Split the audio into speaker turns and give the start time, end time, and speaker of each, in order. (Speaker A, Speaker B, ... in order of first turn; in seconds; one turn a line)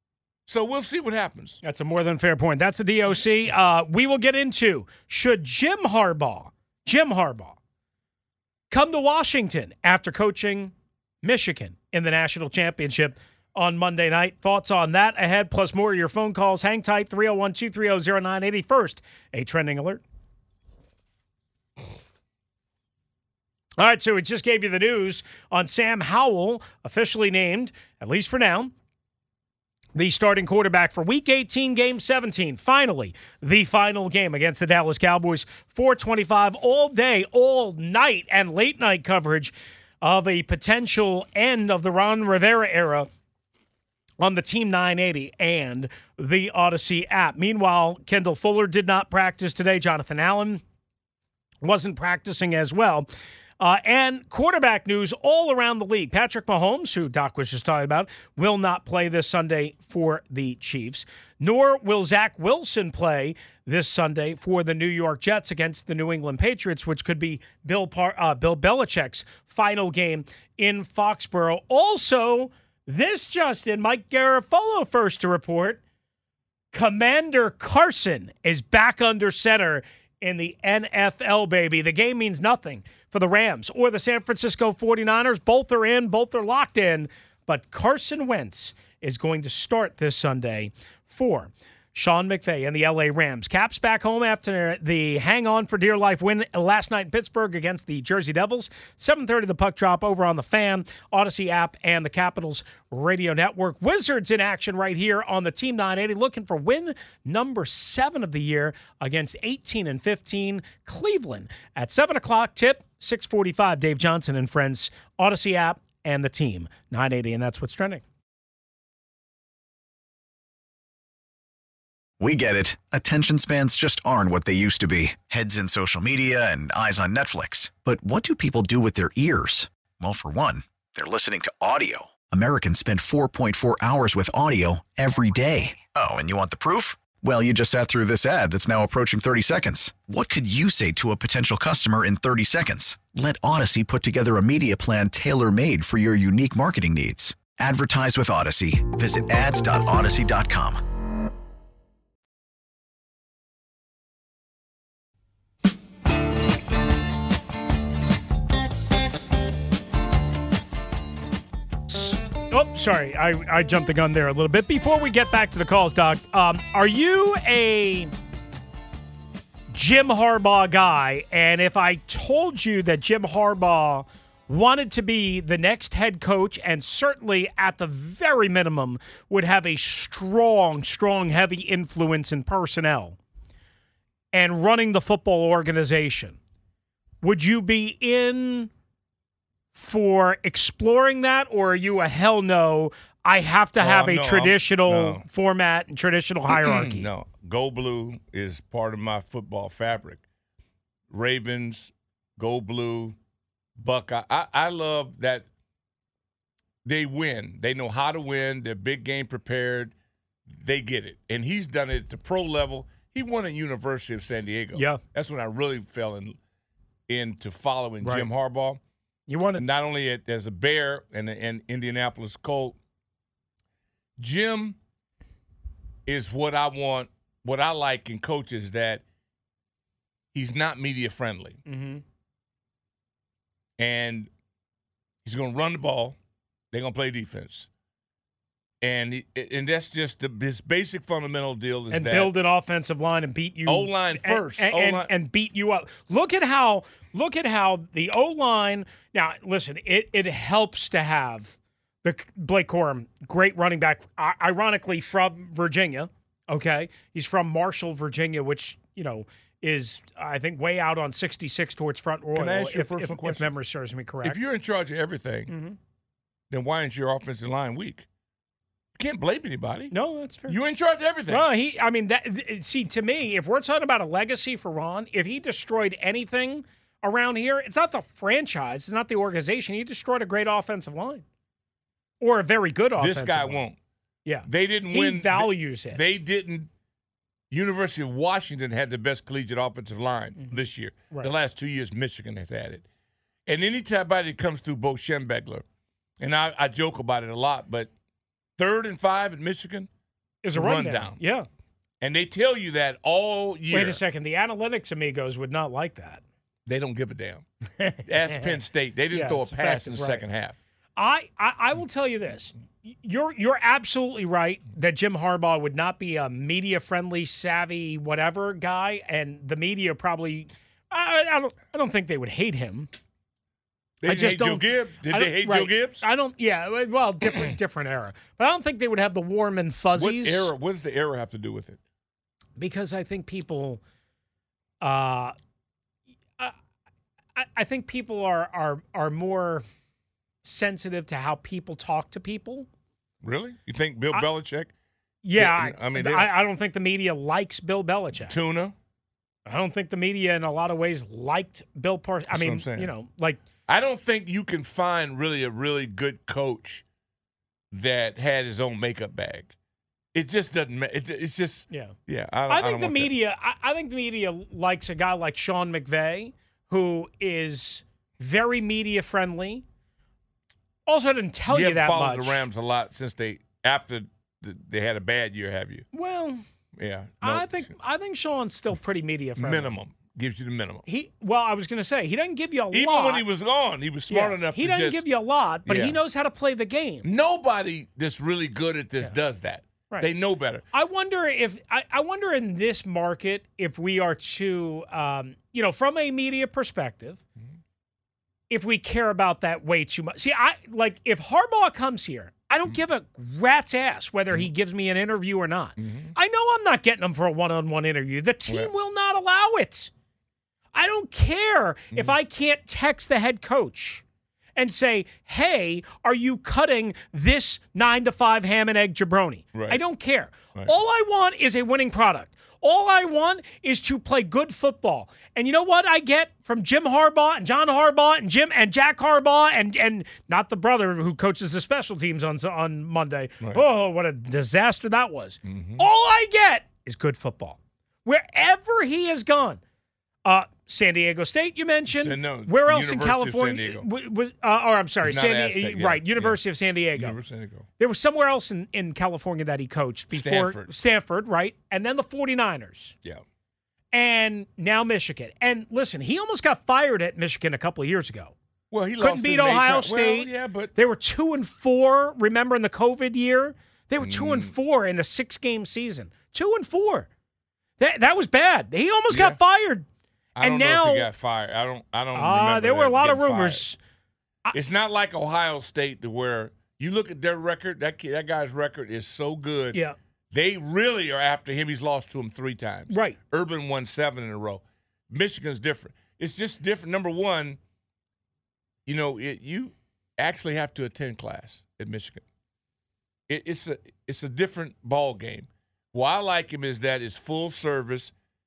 Speaker A: 0.5-1.6
Speaker B: 1.6-7.6
Speaker B: 8.7-20.0
Speaker B: 23.8-28.7
Speaker B: 29.9-43.1
Speaker B: 44.2-50.6
Speaker B: 51.6-53.1
Speaker B: 53.6-75.8
Speaker B: 76.7-118.0
Speaker C: 122.2-150.8
Speaker B: 161.9-168.1
Speaker B: 169.7-183.2
Speaker B: 184.3-186.4
Speaker B: 187.2-188.7
Speaker B: 189.7-197.1
Speaker A: 193.8-195.2
Speaker A: 196.5-200.2
Speaker A: 201.1-203.2
Speaker A: 203.8-205.5
Speaker A: 206.8-209.9
Speaker A: 210.6-216.4
Speaker B: 214.7-215.0
Speaker A: 217.1-218.8
Speaker B: 218.0-218.3
Speaker B: 219.3-219.6
Speaker A: 219.6-222.8
Speaker A: 224.2-224.8
Speaker A: 226.1-229.0
Speaker A: 230.3-231.6
Speaker B: 231.7-232.0
Speaker A: 233.8-234.3
Speaker A: 235.2-236.2
Speaker A: 236.7-237.7
Speaker A: 238.8-242.3
Speaker B: 241.9-264.4
Speaker A: 243.7-245.1
Speaker A: 262.4-263.5
Speaker A: 264.2-265.5
Speaker B: 265.5-265.8
Speaker A: 266.5-268.1
Speaker A: 269.0-269.9
Speaker B: 269.9-270.6
Speaker A: 270.5-271.5
Speaker B: 271.3-281.2
Speaker B: 282.2-283.6
Speaker A: 283.0-283.8
Speaker B: 284.3-286.0
Speaker A: 284.5-286.7
Speaker A: 287.5-292.9
Speaker A: 293.5-295.6
Speaker A: 296.2-297.9
Speaker A: 298.6-299.9
Speaker B: 300.4-301.5
Speaker A: 300.6-301.2
Speaker A: 302.0-304.0
Speaker B: 303.7-306.2
Speaker A: 306.7-307.4
Speaker B: 307.8-308.6
Speaker A: 308.1-310.6
Speaker B: 309.1-310.2
Speaker B: 311.0-322.9
Speaker A: 324.0-326.0
Speaker B: 324.1-330.5
Speaker A: 330.0-331.8
Speaker B: 332.6-333.8
Speaker B: 334.8-335.4
Speaker B: 337.4-339.6
Speaker B: 340.4-342.7
Speaker A: 343.2-344.7
Speaker B: 345.2-348.3
Speaker A: 345.4-346.3
Speaker A: 348.2-348.8
Speaker B: 349.5-353.4
Speaker A: 352.3-352.9
Speaker A: 353.7-356.8
Speaker A: 357.7-359.6
Speaker A: 360.1-363.1
Speaker B: 361.7-361.9
Speaker B: 362.5-369.6
Speaker B: 370.9-372.5
Speaker A: 371.5-375.9
Speaker B: 375.9-376.4
Speaker A: 376.8-377.7
Speaker B: 377.2-379.7
Speaker A: 379.4-380.9
Speaker B: 380.9-383.2
Speaker A: 382.7-385.0
Speaker B: 384.1-387.1
Speaker A: 385.7-386.0
Speaker A: 387.0-390.6
Speaker B: 390.7-397.2
Speaker B: 398.5-409.9
Speaker A: 405.8-406.1
Speaker B: 410.7-414.0
Speaker B: 414.6-439.6
Speaker A: 419.6-419.8
Speaker A: 435.4-435.9
Speaker B: 440.2-447.2
Speaker A: 441.9-443.9
Speaker A: 445.0-446.4
Speaker A: 446.9-447.7
Speaker B: 447.8-452.9
Speaker A: 450.1-450.7
Speaker B: 453.9-458.3
Speaker A: 458.7-460.7
Speaker B: 459.0-467.1
Speaker A: 464.0-464.5
Speaker B: 467.8-469.9
Speaker A: 469.1-469.4
Speaker A: 470.4-473.7
Speaker B: 470.4-471.1
Speaker B: 472.1-473.8
Speaker A: 474.5-479.8
Speaker A: 480.3-487.6
Speaker B: 482.9-483.2
Speaker A: 488.9-492.2
Speaker A: 493.3-498.1